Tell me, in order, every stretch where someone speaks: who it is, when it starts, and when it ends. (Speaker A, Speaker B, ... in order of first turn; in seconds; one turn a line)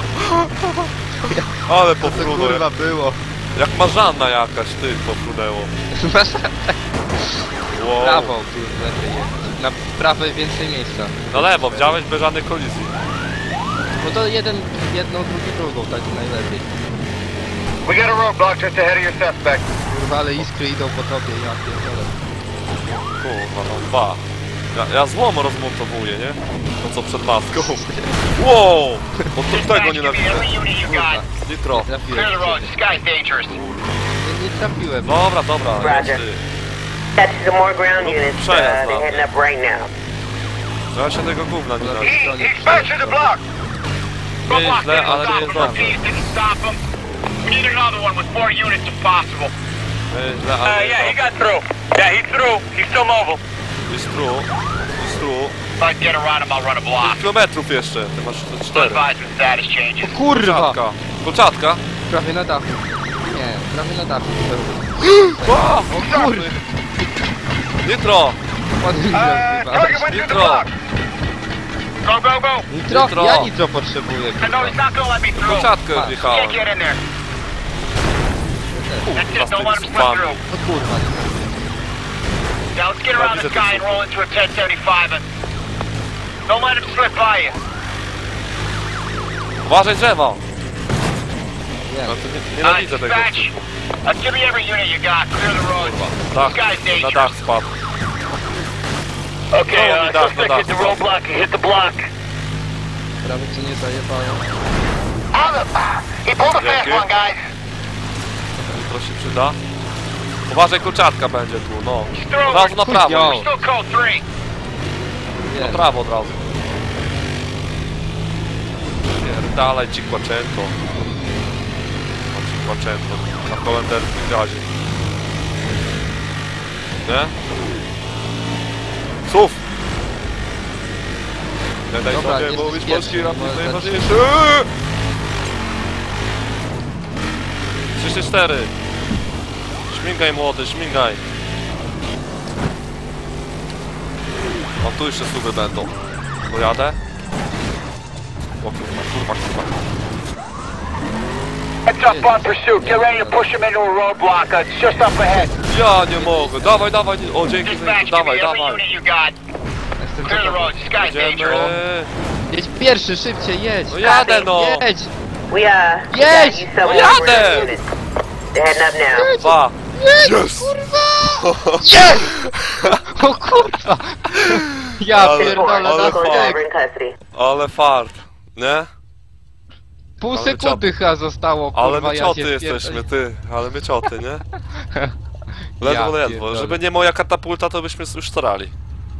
Speaker A: 0.2-0.9
Speaker B: 1.2-3.2
Speaker A: 1.6-2.6
Speaker A: 3.5-5.7
Speaker B: 5.9-7.4
Speaker A: 7.7-8.3
Speaker B: 8.0-12.0
Speaker A: 11.3-12.9
Speaker B: 13.9-16.7
Speaker C: 17.8-19.6
Speaker B: 19.9-22.1
Speaker A: 23.0-30.5
Speaker B: 27.5-28.2
Speaker C: 29.5-31.2
Speaker B: 30.9-32.8
Speaker A: 31.4-31.9
Speaker C: 32.1-33.6
Speaker B: 34.2-35.2
Speaker A: 35.0-36.4
Speaker D: 35.8-36.2
Speaker D: 37.2-39.9
Speaker A: 38.0-39.3
Speaker A: 40.9-42.2
Speaker B: 41.8-43.4
Speaker C: 42.0-43.4
Speaker C: 44.5-46.8
Speaker A: 44.5-46.0
Speaker B: 45.4-45.9
Speaker C: 47.4-49.5
Speaker A: 50.1-51.4
Speaker C: 50.6-53.4
Speaker A: 53.9-55.6
Speaker C: 55.8-57.3
Speaker A: 57.0-59.0
Speaker C: 58.7-60.2
Speaker B: 60.0-60.8
Speaker A: 60.3-61.8
Speaker B: 62.1-66.6
Speaker A: 65.0-66.5
Speaker A: 67.8-68.4
Speaker B: 68.8-70.1
Speaker C: 69.1-70.7
Speaker A: 70.0-70.7
Speaker C: 72.0-72.7
Speaker B: 72.7-74.8
Speaker A: 72.9-73.5
Speaker C: 74.4-77.0
Speaker A: 75.4-76.7
Speaker B: 75.9-76.2
Speaker B: 78.7-79.1
Speaker A: 79.0-80.4
Speaker C: 79.1-80.4
Speaker B: 80.5-81.7
Speaker C: 82.7-85.2
Speaker A: 83.1-84.1
Speaker C: 86.5-87.6
Speaker A: 89.6-90.4
Speaker B: 91.8-92.2
Speaker A: 92.0-93.7
Speaker C: 92.6-97.3
Speaker A: 95.7-97.8
Speaker C: 99.5-102.0
Speaker A: 99.7-101.2
Speaker B: 103.2-104.5
Speaker C: 105.3-107.4
Speaker A: 106.6-107.1
Speaker A: 108.7-109.6
Speaker A: 110.5-113.5
Speaker C: 112.1-114.2
Speaker B: 112.8-113.5
Speaker B: 115.5-115.8
Speaker A: 115.6-116.5
Speaker A: 119.1-120.8
Speaker A: 122.3-124.7
Speaker A: 127.0-127.3
Speaker A: 129.2-129.6
Speaker A: 131.9-134.7
Speaker B: 132.1-134.2
Speaker A: 137.9-138.7
Speaker A: 139.9-141.2
Speaker A: 144.8-145.9
Speaker A: 146.5-147.0
Speaker A: 148.6-149.7
Speaker C: 151.8-155.6
Speaker B: 152.0-153.5
Speaker A: 155.7-158.8
Speaker B: 156.0-156.9
Speaker C: 157.6-159.4
Speaker B: 160.0-160.8
Speaker C: 160.2-161.8
Speaker A: 161.0-162.1
Speaker B: 161.4-161.8
Speaker B: 162.5-165.1
Speaker A: 163.9-164.8
Speaker D: 164.0-164.4
Speaker D: 165.5-167.9
Speaker B: 166.1-167.4
Speaker A: 166.8-167.7
Speaker D: 168.5-169.3
Speaker B: 169.1-176.6
Speaker A: 169.3-172.9
Speaker A: 175.0-176.6
Speaker D: 175.3-177.2
Speaker A: 177.3-178.9
Speaker B: 180.2-183.1
Speaker A: 180.3-180.9
Speaker A: 181.7-184.4
Speaker B: 184.7-185.1
Speaker B: 185.8-186.8
Speaker A: 185.8-188.7